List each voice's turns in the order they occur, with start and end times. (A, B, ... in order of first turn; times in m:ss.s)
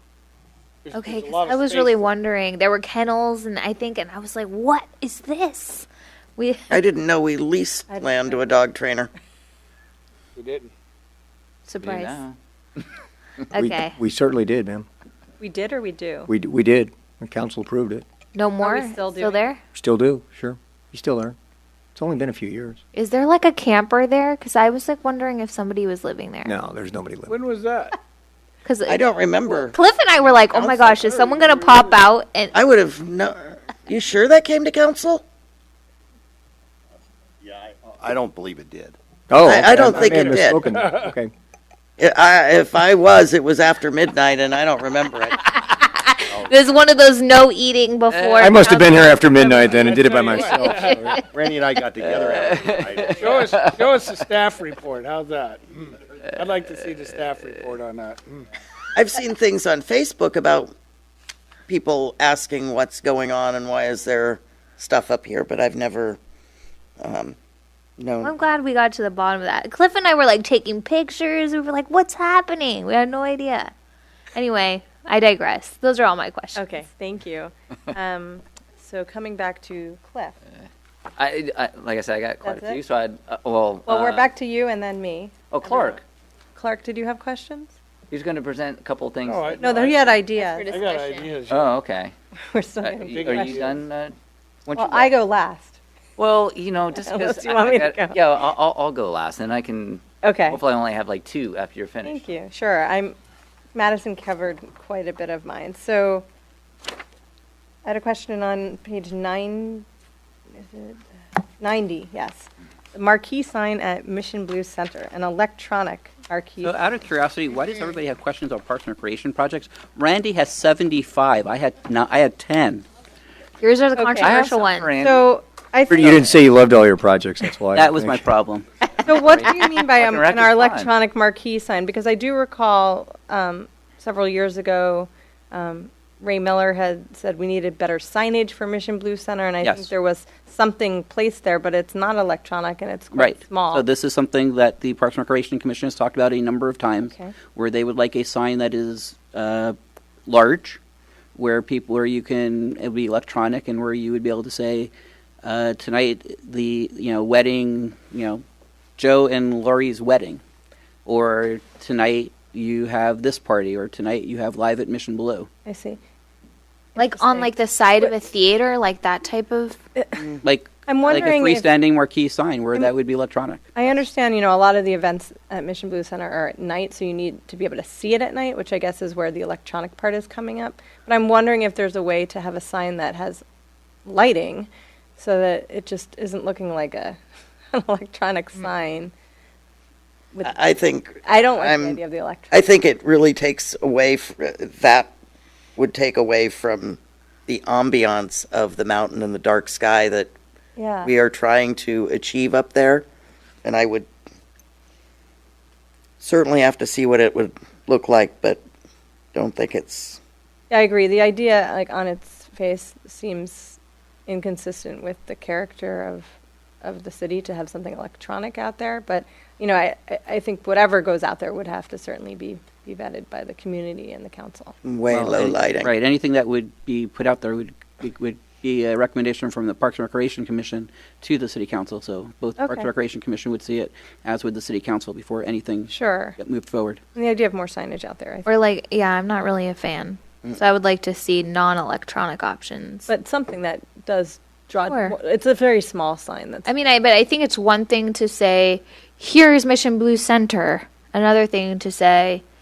0:00.8-0:02.2 A
0:00.9-0:06.7 B
0:06.7-0:09.1 C
0:07.9-0:08.5 D
0:10.4-0:10.7 A
0:11.7-0:12.2 B
0:11.8-0:12.8 E
0:13.5-0:14.0 B
0:13.5-0:14.8 F
0:15.4-0:16.3 D
0:16.3-0:18.0 F
0:18.3-0:19.6 B
0:18.6-0:19.5 D
0:19.7-0:21.4 F
0:21.9-0:22.8 F
0:22.9-0:26.5 B
0:26.4-0:27.3 F
0:27.2-0:28.0 A
0:28.6-0:32.5 B
0:28.8-0:31.4 C
0:31.7-0:32.0 A
0:32.5-0:35.2 C
0:37.6-0:39.0 G
0:39.3-0:41.3 F
0:39.4-0:40.7 C
0:40.0-0:41.1 A
0:42.0-0:45.4 C
0:45.7-0:49.6 B
0:46.3-0:46.6 G
0:48.1-0:48.7 E
0:48.4-0:51.2 F
0:49.4-0:51.1 A
0:50.3-0:51.2 B
0:51.3-0:53.3 G
0:52.0-0:53.8 E
0:53.1-0:58.5 A
0:58.9-1:00.7 C
1:01.7-1:06.2 C
1:07.0-1:07.4 C
1:08.0-1:08.3 C
1:08.2-1:13.7 B
1:14.3-1:16.8 B
1:16.6-1:20.4 D
1:21.2-1:24.3 E
1:22.4-1:22.8 D
1:23.8-1:26.0 D
1:25.5-1:26.0 E
1:26.5-1:27.7 D
1:28.1-1:29.6 E
1:29.2-1:31.7 A
1:29.6-1:30.7 D
1:30.4-1:31.3 B
1:31.4-1:32.1 E
1:32.5-1:33.7 D
1:32.8-1:34.1 E
1:33.1-1:33.8 A
1:34.6-1:35.1 E
1:34.7-1:35.8 D
1:36.2-1:42.3 E
1:36.9-1:38.2 D
1:40.2-1:40.6 D
1:42.0-1:43.2 D
1:43.7-1:46.2 D
1:47.8-1:49.8 D
1:50.5-1:51.0 D
1:51.6-1:56.8 D
1:56.6-2:02.8 H
2:03.6-2:04.9 B
2:03.9-2:06.2 D
2:04.2-2:05.3 E
2:05.9-2:08.3 F
2:07.7-2:08.7 H
2:09.0-2:23.8 D
2:09.1-2:10.9 E
2:19.6-2:19.9 H
2:23.1-2:30.8 H
2:27.0-2:27.3 D
2:31.3-2:34.9 H
2:35.4-2:38.4 H
2:39.0-2:40.4 H
2:41.0-2:45.5 H
2:45.6-2:46.0 D
2:47.0-2:49.8 B
2:47.0-2:48.1 D
2:50.4-2:53.7 H
2:50.8-2:51.7 D
2:53.8-3:03.4 D
3:04.0-3:07.2 D
3:07.7-3:09.1 D
3:10.4-3:15.1 C
3:11.2-3:12.7 D
3:15.8-3:20.3 C
3:20.8-3:21.1 D
3:21.0-3:23.0 C
3:23.6-3:24.1 C
3:26.2-3:28.6 C
3:29.3-3:30.2 C
3:30.7-3:44.8 D
3:44.8-3:45.9 C
3:45.1-3:57.0 H
3:52.6-3:52.9 D
3:55.9-3:56.4 D
3:57.1-3:58.5 D
3:58.4-4:03.1 B
4:03.1-4:06.7 D
4:04.9-4:05.1 B
4:06.6-4:12.4 B